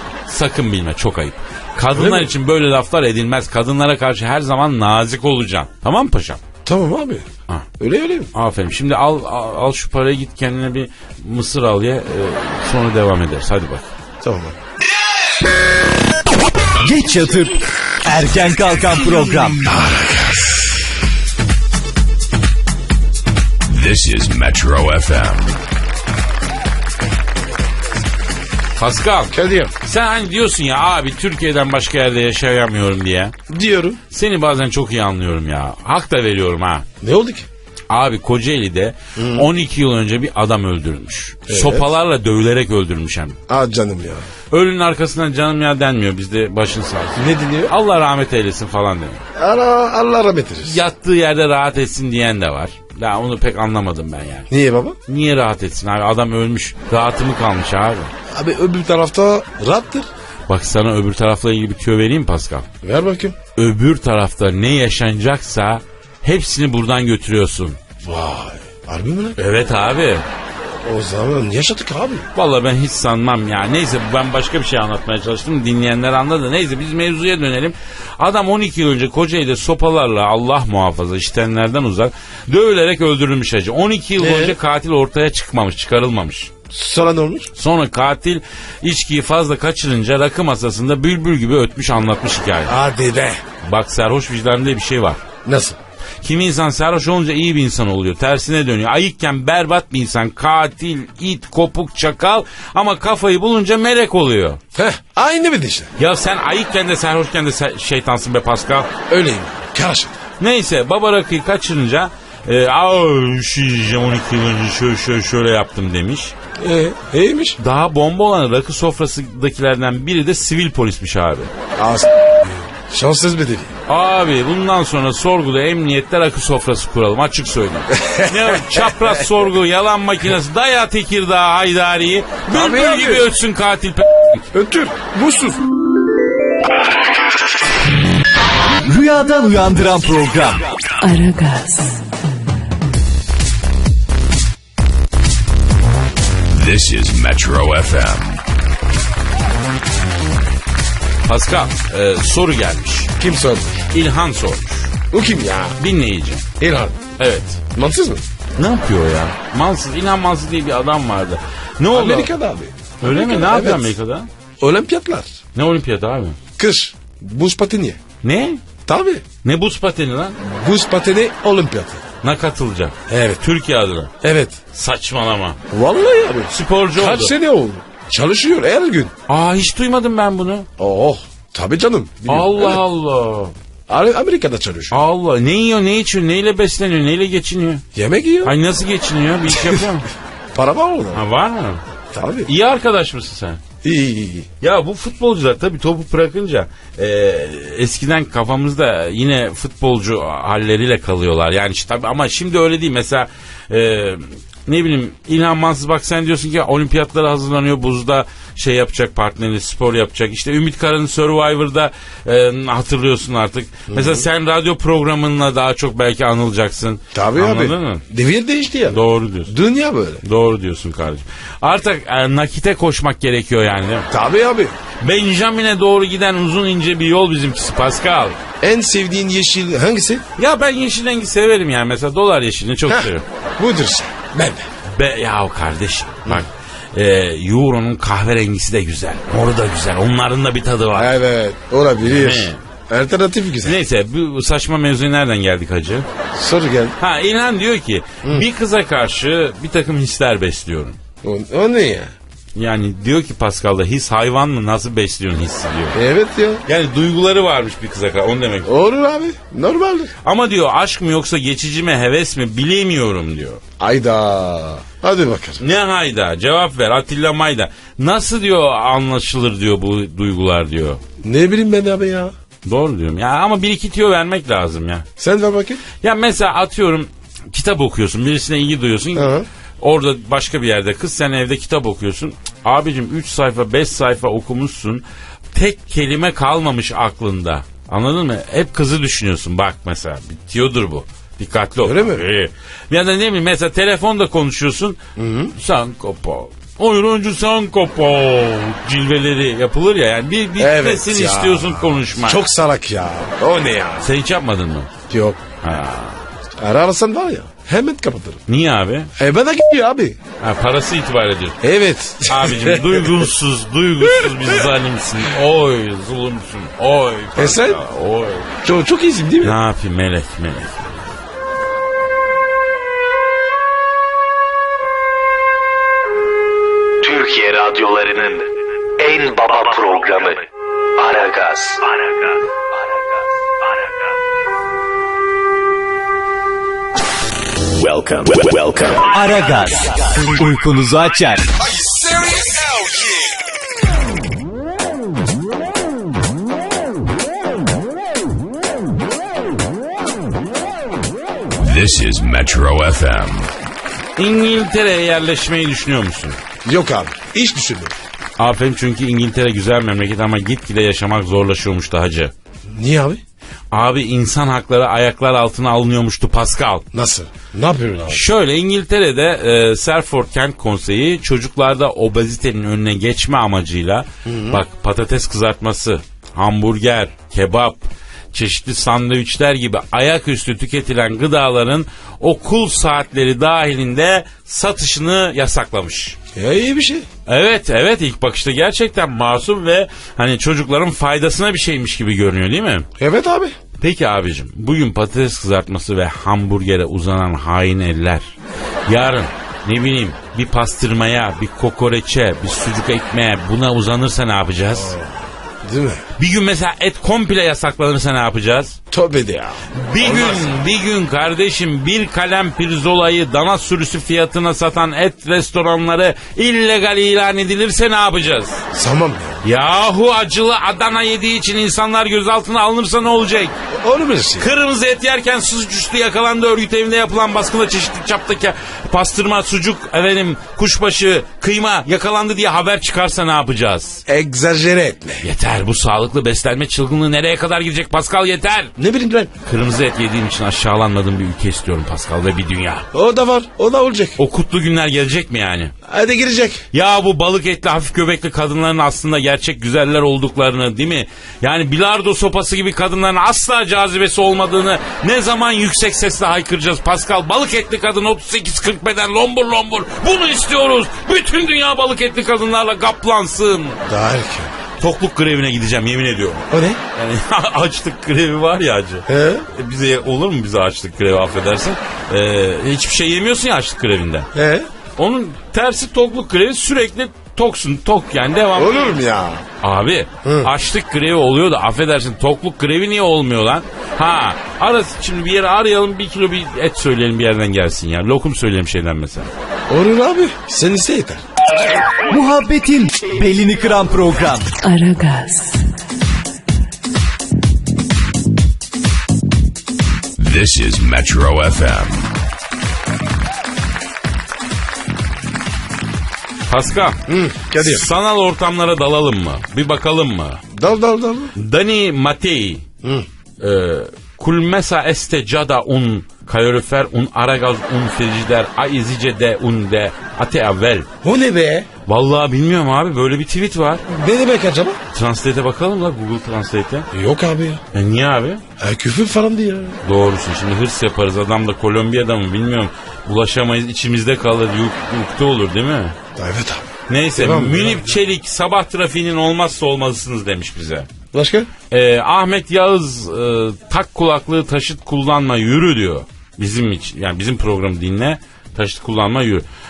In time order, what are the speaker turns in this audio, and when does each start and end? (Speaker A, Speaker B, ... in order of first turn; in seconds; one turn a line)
Speaker A: 0.3-6.4
Speaker B: 1.9-2.3
Speaker B: 6.6-7.3
Speaker B: 7.8-8.3
Speaker A: 8.3-13.9
Speaker B: 14.2-14.6
Speaker C: 16.8-19.6
Speaker B: 19.6-20.8
Speaker D: 23.7-25.6
Speaker A: 28.8-33.3
Speaker B: 29.3-29.7
Speaker B: 33.5-34.0
Speaker A: 34.1-36.9
Speaker B: 37.0-37.5
Speaker A: 37.9-43.4
Speaker B: 39.1-39.5
Speaker B: 41.5-41.9
Speaker B: 43.5-44.3
Speaker A: 44.5-49.2
Speaker B: 47.2-47.7
Speaker B: 49.4-50.8
Speaker A: 50.6-54.5
Speaker B: 54.5-55.0
Speaker A: 55.1-58.1
Speaker B: 58.3-60.1
Speaker A: 60.5-62.7
Speaker B: 62.8-63.4
Speaker A: 63.5-67.8
Speaker B: 68.0-69.4
Speaker A: 69.4-70.2
Speaker B: 70.6-72.3
Speaker A: 72.3-86.5
Speaker B: 84.2-84.5
Speaker B: 86.7-87.5
Speaker A: 87.6-92.7
Speaker B: 92.7-93.4
Speaker A: 93.6-95.2
Speaker B: 95.4-95.8
Speaker A: 96.2-104.6
Speaker B: 104.7-105.9
Speaker A: 106.0-108.9
Speaker B: 109.1-110.1
Speaker A: 110.4-116.3
Speaker B: 116.6-117.6
Speaker A: 117.6-121.5
Speaker B: 121.8-123.7
Speaker A: 123.9-134.5
Speaker B: 127.9-129.2
Speaker B: 132.5-133.3
Speaker B: 134.5-135.6
Speaker C: 138.8-140.7
Speaker E: 141.0-142.1
Speaker D: 146.5-148.4
Speaker A: 151.2-153.1
Speaker B: 153.2-153.8
Speaker A: 153.9-154.9
Speaker B: 155.1-155.8
Speaker A: 155.8-156.5
Speaker B: 156.6-157.0
Speaker A: 157.2-157.6
Speaker B: 157.7-158.2
Speaker A: 158.6-162.3
Speaker B: 161.9-163.9
Speaker A: 163.0-164.3
Speaker B: 164.6-165.3
Speaker A: 165.5-166.4
Speaker B: 166.6-168.0
Speaker A: 168.2-168.6
Speaker B: 168.8-169.2
Speaker A: 169.4-170.3
Speaker B: 170.4-172.0
Speaker A: 172.2-174.1
Speaker B: 173.1-173.4
Speaker B: 174.2-174.6
Speaker A: 174.7-175.6
Speaker B: 175.7-179.1
Speaker A: 176.5-177.3
Speaker A: 179.3-180.7
Speaker B: 180.8-182.8
Speaker A: 182.3-183.5
Speaker B: 183.9-185.0
Speaker A: 184.9-187.8
Speaker B: 187.9-188.6
Speaker A: 188.4-190.1
Speaker B: 190.5-191.2
Speaker A: 191.1-191.8
Speaker B: 192.1-192.5
Speaker A: 192.4-193.6
Speaker B: 193.8-194.5
Speaker A: 194.6-218.0
Speaker B: 213.9-214.3
Speaker B: 217.1-220.2
Speaker A: 218.9-219.5
Speaker A: 220.2-224.1
Speaker B: 224.1-224.7
Speaker A: 225.0-228.4
Speaker B: 228.6-230.2
Speaker A: 230.4-233.2
Speaker B: 232.9-234.7
Speaker A: 234.9-241.1
Speaker B: 240.9-243.8
Speaker A: 242.0-242.6
Speaker A: 243.6-246.1
Speaker B: 246.3-246.9
Speaker A: 247.0-251.0
Speaker B: 251.2-252.1
Speaker A: 252.5-256.0
Speaker B: 255.9-256.6
Speaker A: 256.6-258.7
Speaker B: 258.6-260.1
Speaker A: 260.2-263.6
Speaker B: 263.8-265.6
Speaker A: 265.6-271.0
Speaker B: 271.2-272.3
Speaker A: 272.6-275.1
Speaker B: 275.2-275.8
Speaker A: 276.0-295.0
Speaker B: 279.1-279.5
Speaker B: 291.8-292.2
Speaker B: 295.1-295.5
Speaker A: 295.5-302.4
Speaker B: 300.6-304.1
Speaker A: 304.0-304.9
Speaker B: 305.1-305.4
Speaker A: 305.6-306.2
Speaker B: 306.6-308.4
Speaker A: 308.5-309.1
Speaker B: 309.2-310.2
Speaker A: 310.4-311.6
Speaker B: 311.6-313.3
Speaker A: 312.3-318.5
Speaker B: 314.0-314.5
Speaker B: 317.4-317.8
Speaker B: 318.6-319.6
Speaker A: 319.4-321.0
Speaker F: 327.0-330.4
Speaker F: 331.0-332.3
Speaker D: 337.8-339.1
Speaker F: 338.3-338.9
Speaker C: 339.1-341.5
Speaker B: 341.6-343.4
Speaker D: 351.6-353.5
Speaker A: 354.2-356.4
Speaker B: 356.6-357.9
Speaker A: 358.4-362.3
Speaker B: 362.7-363.2
Speaker A: 363.7-366.8
Speaker B: 366.9-368.2
Speaker A: 368.1-386.2
Speaker B: 374.2-374.6
Speaker B: 386.3-387.1
Speaker A: 387.3-392.9
Speaker B: 393.0-393.6
Speaker A: 393.8-398.2
Speaker A: 398.9-404.9
Speaker B: 404.7-406.0
Speaker A: 406.2-408.8
Speaker B: 408.9-410.6
Speaker A: 409.7-418.6
Speaker B: 418.7-419.4
Speaker A: 419.4-423.5
Speaker B: 423.7-424.5
Speaker A: 424.4-434.0
Speaker B: 434.1-435.2
Speaker A: 435.2-438.7
Speaker B: 438.8-439.3
Speaker A: 439.4-442.9
Speaker B: 442.9-444.2
Speaker A: 444.2-445.7
Speaker B: 445.8-446.6
Speaker A: 446.7-463.8
Speaker B: 463.9-464.5
Speaker A: 464.8-474.3
Speaker B: 466.5-466.8
Speaker B: 469.1-469.4
Speaker B: 474.3-474.7
Speaker A: 475.0-479.0
Speaker B: 478.5-479.4
Speaker A: 479.6-489.3
Speaker B: 480.2-480.5
Speaker B: 489.7-491.2
Speaker C: 492.1-494.5
Speaker E: 494.6-495.6
Speaker D: 500.2-502.1
Speaker A: 506.5-507.0
Speaker B: 507.1-507.9
Speaker A: 507.5-510.4
Speaker B: 510.5-511.3
Speaker A: 511.4-512.6
Speaker A: 513.4-520.9
Speaker B: 521.0-521.7
Speaker A: 521.9-523.8
Speaker B: 523.9-524.8
Speaker A: 524.9-526.9
Speaker B: 526.9-527.6
Speaker A: 527.7-528.4
Speaker B: 528.6-529.8
Speaker A: 529.8-536.0
Speaker B: 536.1-537.9
Speaker A: 536.9-540.9
Speaker B: 541.1-541.5
Speaker A: 541.7-549.4